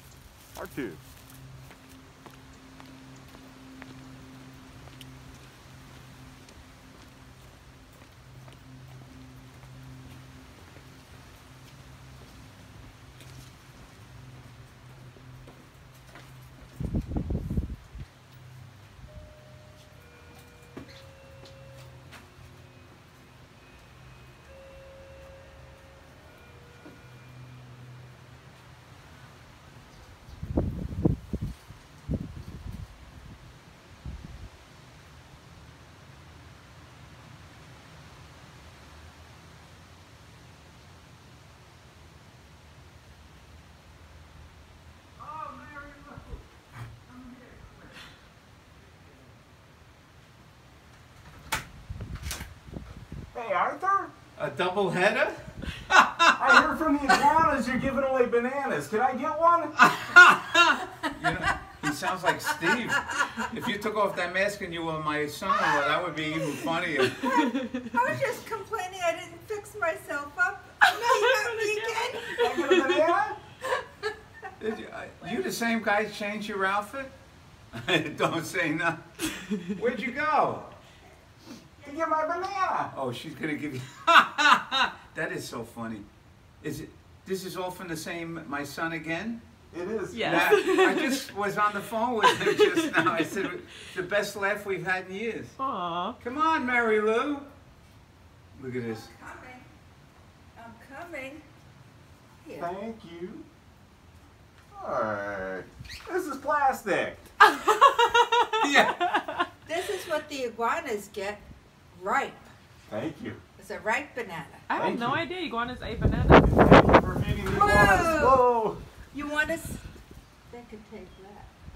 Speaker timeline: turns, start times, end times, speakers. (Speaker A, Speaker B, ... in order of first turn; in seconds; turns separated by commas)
Speaker A: 0.5-1.0, Speaker B: 45.2-46.4, Speaker B: 47.1-48.0, Speaker B: 48.8-49.3, Speaker A: 53.3-54.1, Speaker B: 54.4-56.6, Speaker A: 56.4-59.8, Speaker B: 59.8-67.3, Speaker C: 65.6-72.4, Speaker D: 67.2-67.8, Speaker D: 70.9-73.1, Speaker A: 72.4-73.4, Speaker B: 74.6-77.1, Speaker B: 77.7-79.0, Speaker B: 79.7-80.7, Speaker A: 81.8-82.9, Speaker B: 82.9-86.0, Speaker B: 86.6-89.4, Speaker A: 89.7-90.6, Speaker D: 90.1-91.2, Speaker B: 90.2-95.5, Speaker D: 92.2-93.4, Speaker D: 95.6-96.2, Speaker B: 96.2-97.5, Speaker B: 98.5-99.1, Speaker C: 98.9-99.7, Speaker C: 100.5-101.4, Speaker C: 102.4-102.7, Speaker A: 102.6-103.4, Speaker A: 104.7-107.3, Speaker D: 107.4-109.5, Speaker B: 108.6-109.2, Speaker C: 109.7-112.5, Speaker A: 112.9-113.4, Speaker C: 113.6-114.7, Speaker D: 114.7-116.6, Speaker A: 114.7-115.2, Speaker A: 116.5-118.8, Speaker C: 117.5-118.5, Speaker C: 119.1-119.9, Speaker C: 120.5-121.5